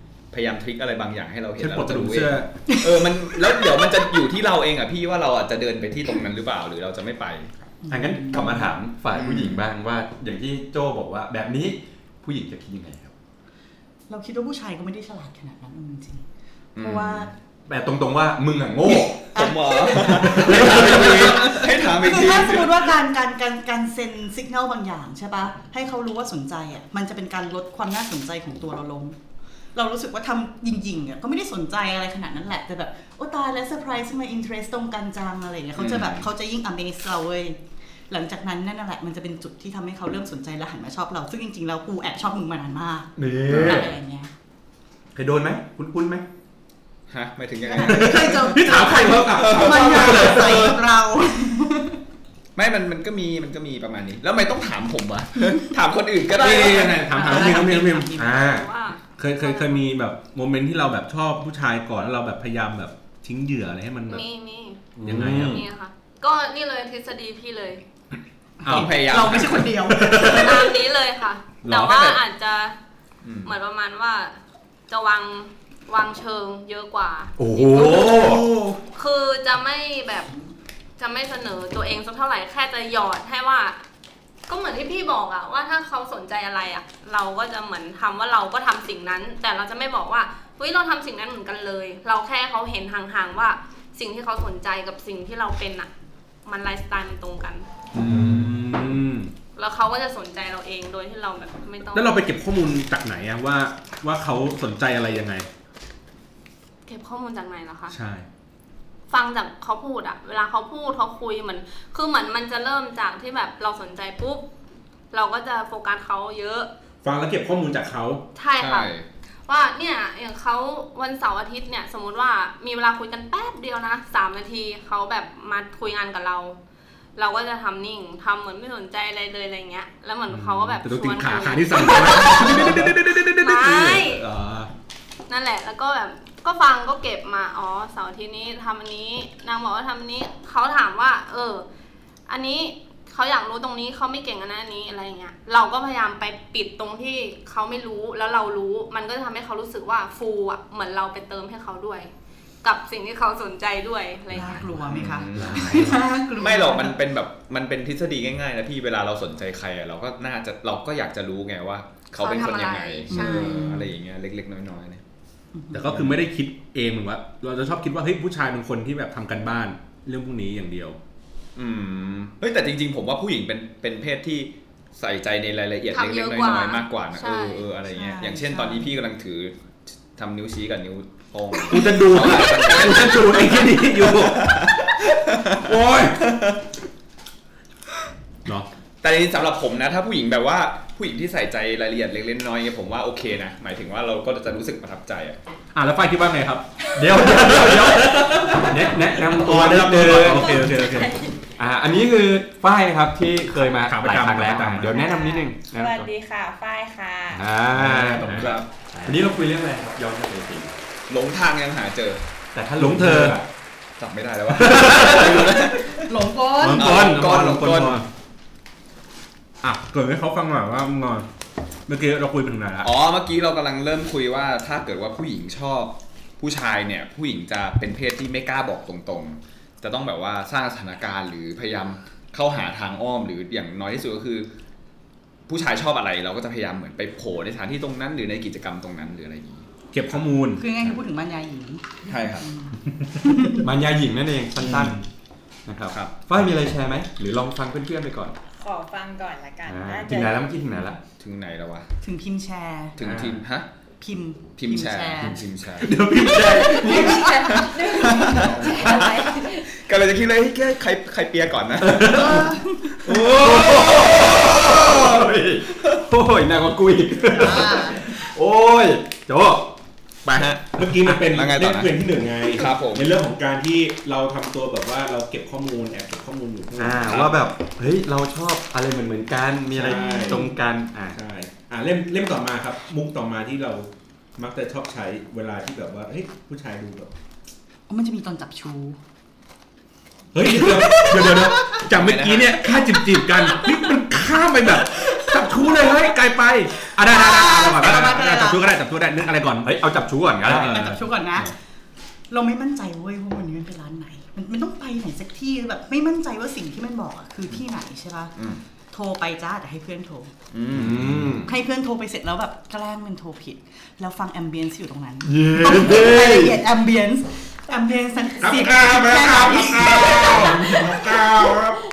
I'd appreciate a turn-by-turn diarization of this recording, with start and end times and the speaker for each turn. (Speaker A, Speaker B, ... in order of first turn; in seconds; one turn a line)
Speaker A: 0.3-7.5
Speaker B: 1.6-2.5
Speaker C: 2.7-3.9
Speaker C: 7.8-8.7
Speaker D: 7.9-13.1
Speaker A: 9.1-9.6
Speaker C: 14.1-16.2
Speaker A: 16.8-17.3
Speaker C: 16.8-17.3
Speaker D: 17.7-19.3
Speaker A: 18.9-22.9
Speaker C: 19.3-29.2
Speaker D: 19.8-21.6
Speaker B: 20.5-21.4
Speaker C: 29.8-37.6
Speaker A: 35.8-36.3
Speaker C: 38.1-44.3
Speaker D: 43.2-43.9
Speaker A: 43.5-43.9
Speaker D: 45.1-46.3
Speaker A: 47.1-48.5
Speaker C: 47.7-52.0
Speaker B: 47.9-50.7
Speaker A: 49.3-50.8
Speaker A: 52.6-57.1
Speaker B: 56.3-58.2
Speaker C: 56.8-58.4
Speaker D: 58.2-58.7
Speaker E: 58.2-59.8
Speaker B: 59.2-64.2
Speaker E: 64.1-67.8
Speaker B: 65.0-65.6
Speaker D: 65.0-65.6
Speaker B: 68.6-69.3
Speaker A: 68.7-69.8
Speaker C: 68.8-70.7
Speaker B: 69.9-70.6
Speaker E: 70.3-72.8
Speaker B: 71.6-72.0
Speaker A: 71.8-72.2
Speaker A: 73.2-73.5
Speaker E: 73.5-74.4
Speaker E: 74.9-78.4
Speaker D: 77.4-78.5
Speaker C: 78.2-78.8
Speaker E: 78.9-80.3
Speaker E: 81.0-83.8
Speaker E: 84.5-95.9
Speaker E: 96.5-97.7
Speaker B: 98.0-99.3
Speaker D: 98.0-98.5
Speaker E: 99.6-102.3
Speaker B: 101.9-105.5
Speaker E: 106.9-108.0
Speaker B: 107.9-108.2
Speaker E: 109.1-114.5
Speaker E: 115.1-116.7
Speaker B: 117.0-118.2
Speaker E: 118.4-118.9
Speaker A: 118.6-119.0
Speaker E: 119.5-126.6
Speaker E: 127.2-134.2
Speaker B: 130.3-134.7
Speaker E: 135.3-141.7
Speaker E: 142.3-152.1
Speaker E: 152.6-154.7
Speaker C: 154.3-157.0
Speaker A: 154.9-165.0
Speaker E: 162.2-163.7
Speaker C: 163.1-163.9
Speaker C: 165.5-166.0
Speaker B: 165.7-171.0
Speaker A: 171.6-179.6
Speaker E: 175.9-177.7
Speaker C: 177.9-178.9
Speaker A: 180.1-186.6
Speaker B: 181.7-184.8
Speaker B: 185.5-186.2
Speaker A: 189.0-195.4
Speaker B: 195.7-201.1
Speaker D: 196.9-200.8
Speaker F: 200.2-201.3
Speaker D: 201.6-206.1
Speaker B: 203.8-205.0
Speaker F: 204.8-207.5
Speaker D: 207.3-210.7
Speaker B: 207.6-209.2
Speaker A: 208.2-208.7
Speaker A: 211.1-212.2
Speaker D: 212.5-213.4
Speaker B: 212.8-213.4
Speaker A: 214.0-216.1
Speaker B: 214.6-215.6
Speaker C: 216.1-217.0
Speaker B: 216.6-218.1
Speaker A: 216.8-218.1
Speaker B: 219.6-221.3
Speaker B: 221.9-222.9
Speaker A: 222.8-234.5
Speaker A: 235.5-240.2
Speaker B: 239.9-240.7
Speaker C: 240.6-243.7
Speaker A: 242.1-242.5
Speaker D: 243.6-245.0
Speaker B: 244.6-245.1
Speaker D: 245.7-248.4
Speaker F: 248.5-250.5
Speaker D: 249.7-251.0
Speaker A: 251.2-251.9
Speaker C: 252.0-253.0
Speaker A: 253.0-253.7
Speaker D: 253.1-253.3
Speaker C: 254.0-255.4
Speaker A: 254.6-256.0
Speaker B: 255.8-257.3
Speaker F: 256.4-259.7
Speaker A: 257.2-262.4
Speaker B: 261.9-262.4
Speaker D: 261.9-262.4
Speaker C: 262.1-262.9
Speaker A: 263.1-265.3
Speaker D: 263.1-269.7
Speaker B: 263.1-263.6
Speaker C: 267.4-268.0
Speaker A: 270.2-273.1
Speaker B: 270.8-277.2
Speaker D: 276.7-281.2
Speaker B: 279.7-280.5
Speaker C: 279.9-280.5
Speaker B: 281.1-287.1
Speaker C: 287.9-289.0
Speaker B: 290.3-299.8
Speaker C: 290.4-291.9
Speaker A: 291.9-292.7
Speaker C: 294.9-296.1
Speaker C: 296.8-298.7
Speaker D: 299.6-300.9
Speaker B: 300.4-301.5
Speaker C: 300.5-301.5
Speaker C: 302.3-308.3
Speaker C: 308.9-310.3
Speaker A: 310.5-311.4
Speaker D: 310.7-311.5
Speaker C: 311.4-321.6
Speaker D: 315.2-316.6
Speaker B: 318.4-321.8